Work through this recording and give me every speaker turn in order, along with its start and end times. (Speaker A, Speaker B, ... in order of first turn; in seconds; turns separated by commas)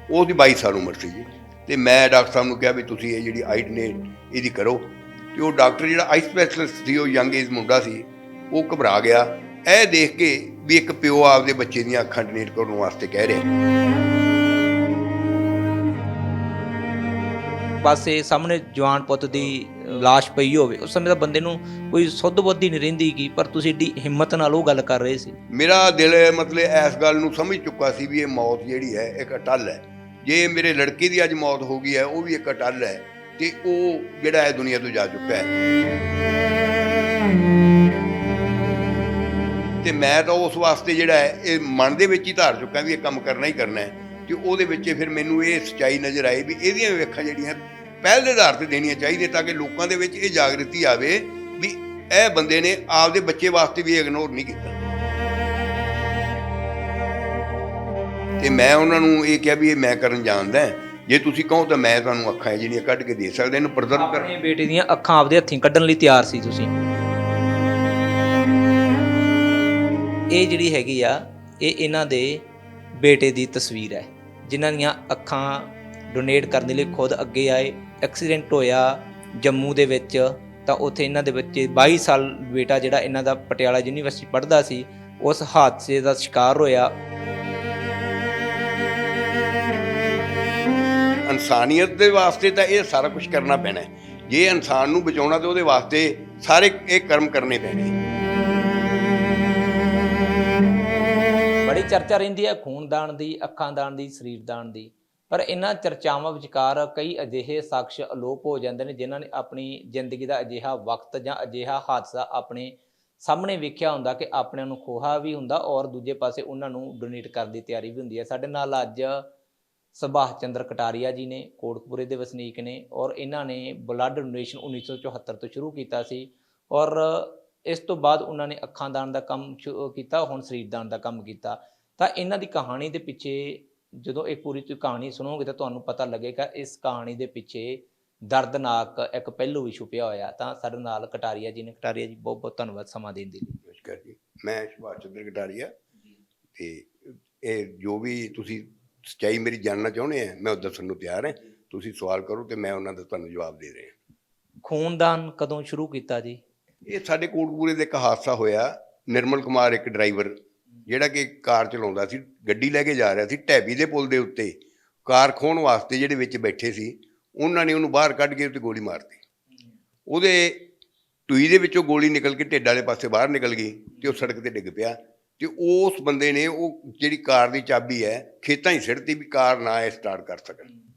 Speaker A: 0.1-13.5, Speaker B: 17.8-25.4, Speaker A: 25.5-35.5, Speaker A: 39.8-54.8, Speaker A: 58.4-64.3, Speaker B: 63.9-66.7, Speaker B: 70.3-86.9, Speaker A: 91.3-97.9, Speaker B: 101.7-119.3, Speaker B: 120.0-143.6, Speaker A: 143.7-145.7, Speaker A: 146.6-153.9, Speaker B: 154.6-156.4, Speaker A: 156.9-169.2, Speaker A: 170.1-170.7, Speaker A: 171.3-180.7